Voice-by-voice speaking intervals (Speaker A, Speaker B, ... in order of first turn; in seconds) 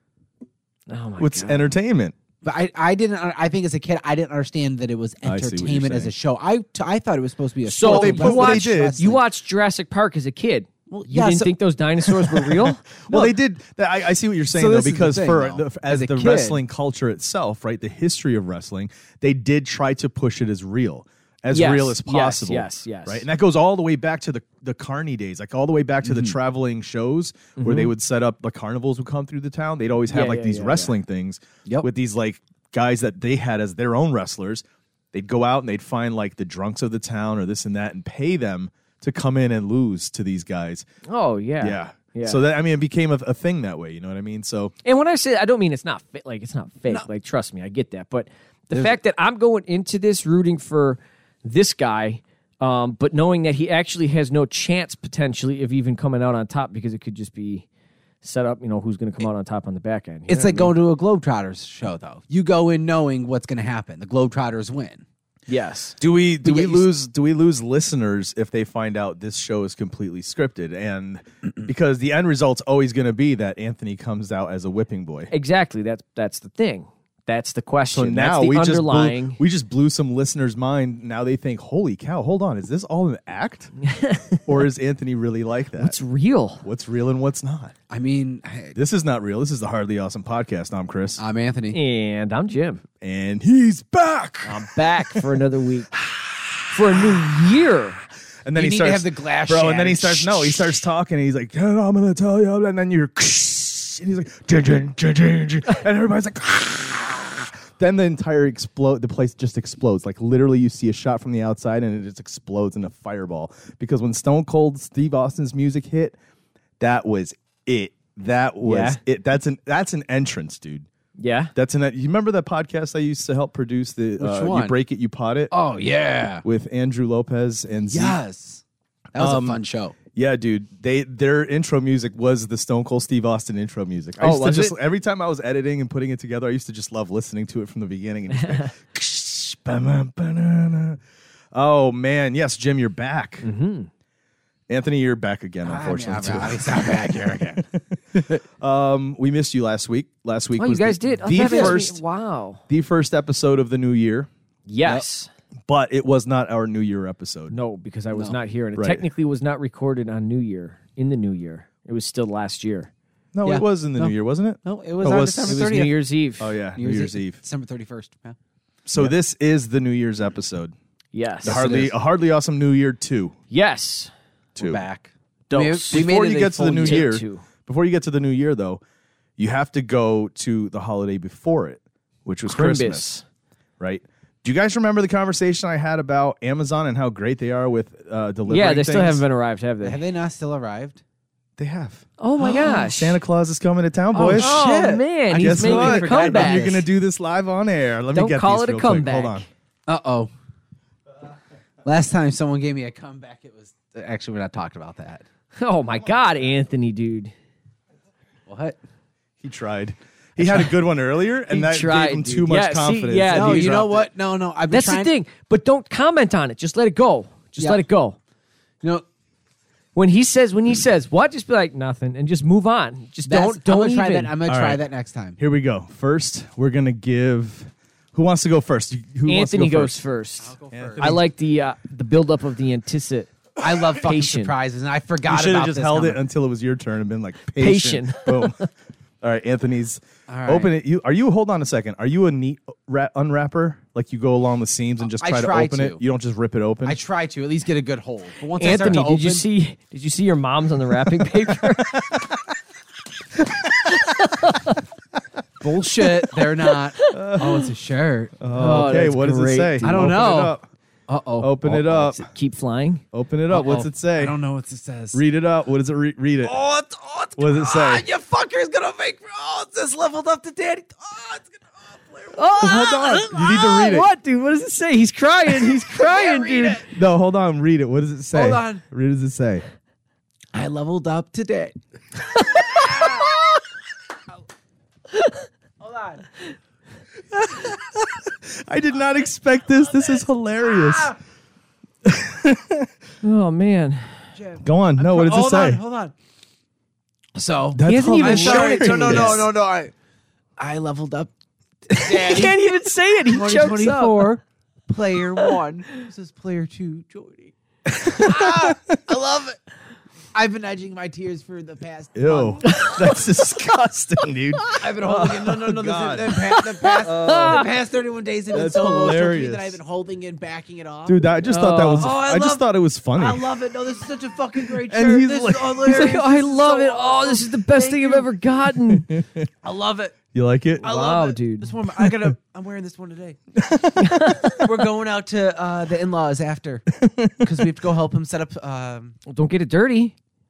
Speaker A: 0.9-1.6, 7.7-12.8, 21.5-23.2, 27.6-27.9, 30.1-30.9, 41.0-42.4, 44.8-57.6, 58.2-60.7, 65.5-65.9, 75.3-79.4, 83.8-84.4, 85.8-86.7, 91.7-92.8, 94.4-95.9, 96.7-98.0, 118.6-119.0, 121.2-121.5, 134.2-134.8, 138.3-138.7, 143.4-143.9, 150.5-152.6, 154.7-155.3, 157.5-162.9, 165.4-166.5, 171.1-171.9, 173.5-174.1, 175.5-177.4, 182.4-183.2, 188.5-190.0, 192.2-193.2, 194.1-196.7, 198.1-199.5, 205.6-207.3, 211.5-213.7, 214.7-218.2, 219.9-224.3, 229.2-234.5, 237.6-238.7, 248.6-252.1, 254.0-254.8, 258.5-260.0, 261.6-263.0, 272.3-276.8, 282.4-282.8, 293.2-294.2, 297.8-299.4, 301.9-304.4, 312.6-313.0, 317.0-317.6, 321.4-322.1, 325.8-329.1, 330.8-331.7, 334.0-334.6, 339.3-340.1
Speaker B: 1.2-2.1, 5.2-6.1, 7.8-9.0, 12.7-40.9, 41.6-44.7, 66.0-75.3, 77.9-83.7, 84.5-86.0, 86.6-87.7, 88.7-91.2, 93.0-95.2, 98.4-116.2, 116.8-120.9, 121.5-125.5, 126.4-128.2, 129.2-129.6, 130.1-141.0, 141.5-143.5, 144.7-152.0, 152.7-154.3, 155.7-157.5, 158.7-159.1, 163.3-165.9, 166.4-167.4, 168.8-170.7, 171.4-173.3, 174.6-174.8, 175.9-178.8, 179.4-183.1, 183.8-189.2, 191.6-194.6, 195.3-199.4, 209.4-214.1, 224.4-224.8, 225.4-230.0, 230.7-231.2, 235.2-238.7, 239.2-247.0, 257.1-257.6, 258.4-260.6, 261.4-262.2, 263.1-264.4, 265.1-266.5, 267.4-268.1, 272.6-274.1, 276.9-279.6, 287.3-291.1, 292.0-292.9, 294.6-295.8, 297.7-299.5, 308.1-308.8, 312.1-317.6, 318.5-319.8, 321.1-323.5, 324.7-326.1, 328.9-329.5, 330.3-330.9, 332.0-332.3, 333.6-334.5, 337.0-337.6
Speaker C: 2.4-9.2, 10.9-11.5, 13.1-13.3, 14.5-16.6, 26.0-26.4, 60.3-65.0, 66.4-66.9, 87.9-88.8, 91.2-91.8, 98.5-100.8, 124.2-124.8, 125.5-126.4, 127.9-128.6, 129.1-129.9, 145.6-147.6, 151.3-151.8, 163.4-164.1, 164.6-166.1, 166.8-168.3, 171.4-171.9, 174.6-177.1, 189.8-191.0, 194.3-196.8, 199.9-200.3, 201.8-205.2, 208.5-208.8, 213.3-215.1, 223.2-225.4, 230.4-231.1, 233.6-236.2, 240.3-240.7, 245.1-246.0, 246.8-249.4, 255.6-258.4, 259.8-261.5, 263.5-265.2, 266.4-273.8, 275.6-276.8, 278.3-278.8, 280.5-281.7, 282.5-283.6, 285.8-286.3, 289.9-291.2, 294.4-296.1, 297.3-299.9, 300.6-301.3, 301.9-309.6, 310.3-312.9, 314.7-321.3, 322.0-328.3, 329.6-330.2, 330.8-333.4, 334.5-339.1